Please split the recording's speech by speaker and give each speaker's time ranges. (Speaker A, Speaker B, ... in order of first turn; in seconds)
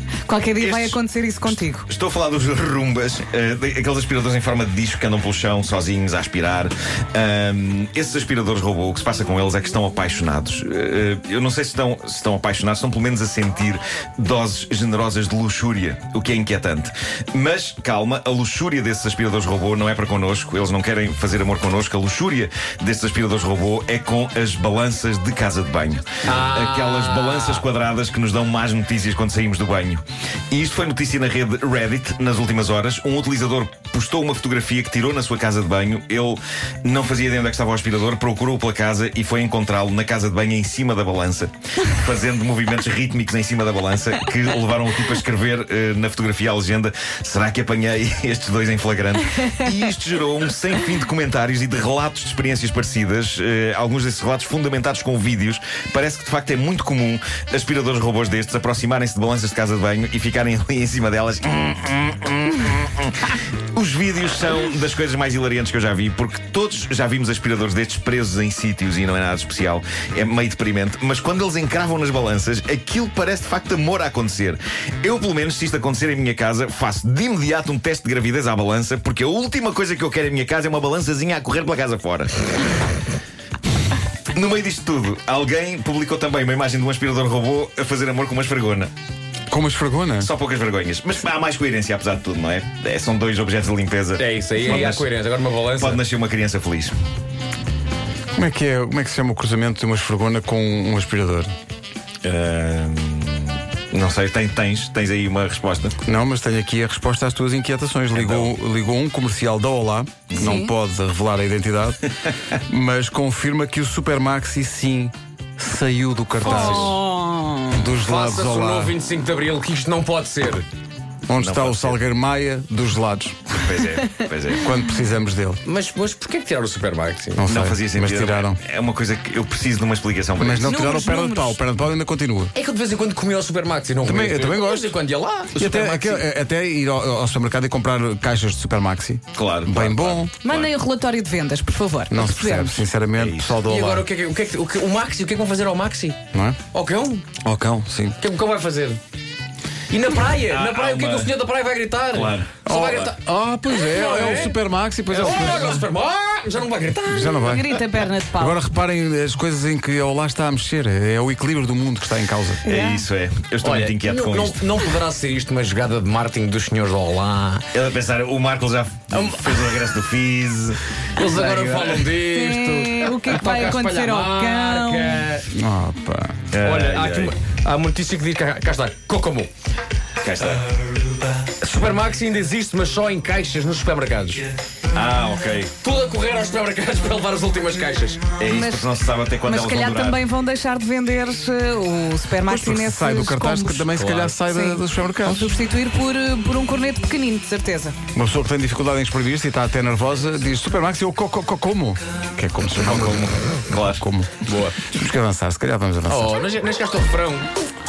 Speaker A: 0.3-1.9, 110.4-110.7, 116.4-117.8, 130.6-131.6, 140.4-142.9, 157.4-158.6, 162.6-163.1, 172.2-175.2, 188.4-188.9, 189.4-193.9, 194.4-198.0
Speaker B: 0.6-82.3, 84.3-88.9, 90.2-95.1, 95.8-96.9, 102.2-106.0, 108.1-108.5, 121.4-122.0, 123.6-124.7, 127.5-131.0, 139.3-140.7, 143.2-143.6, 150.5-151.3, 152.1-153.1, 162.7-164.7, 167.7-170.8, 176.5-177.3, 180.2-180.6, 184.9-185.7, 188.4-190.2, 203.7-204.1
Speaker C: 26.2-27.7, 94.2-96.0, 116.4-117.0, 118.0-120.7, 125.6-127.5, 132.5-136.2, 143.7-146.2, 146.7-147.3, 148.2-149.0, 149.9-153.2, 153.7-154.6, 155.1-157.4, 163.6-167.7, 169.1-169.8, 171.1-175.5, 176.6-179.5, 181.6-184.4, 185.8-188.2, 193.9-194.4, 204.5-204.9, 206.1-207.5
Speaker D: 89.5-90.3, 98.4-101.5, 106.1-117.0, 117.7-119.0, 121.3-123.8, 124.6-125.6, 127.4-128.6, 130.4-132.5, 134.0-134.9, 135.5-140.3, 142.1-144.1, 146.3-146.6, 147.4-148.2, 152.7-155.8, 157.1-157.8, 158.3-162.7, 175.5-176.4, 192.5-195.5, 198.1-203.3, 203.9-204.3, 204.9-206.4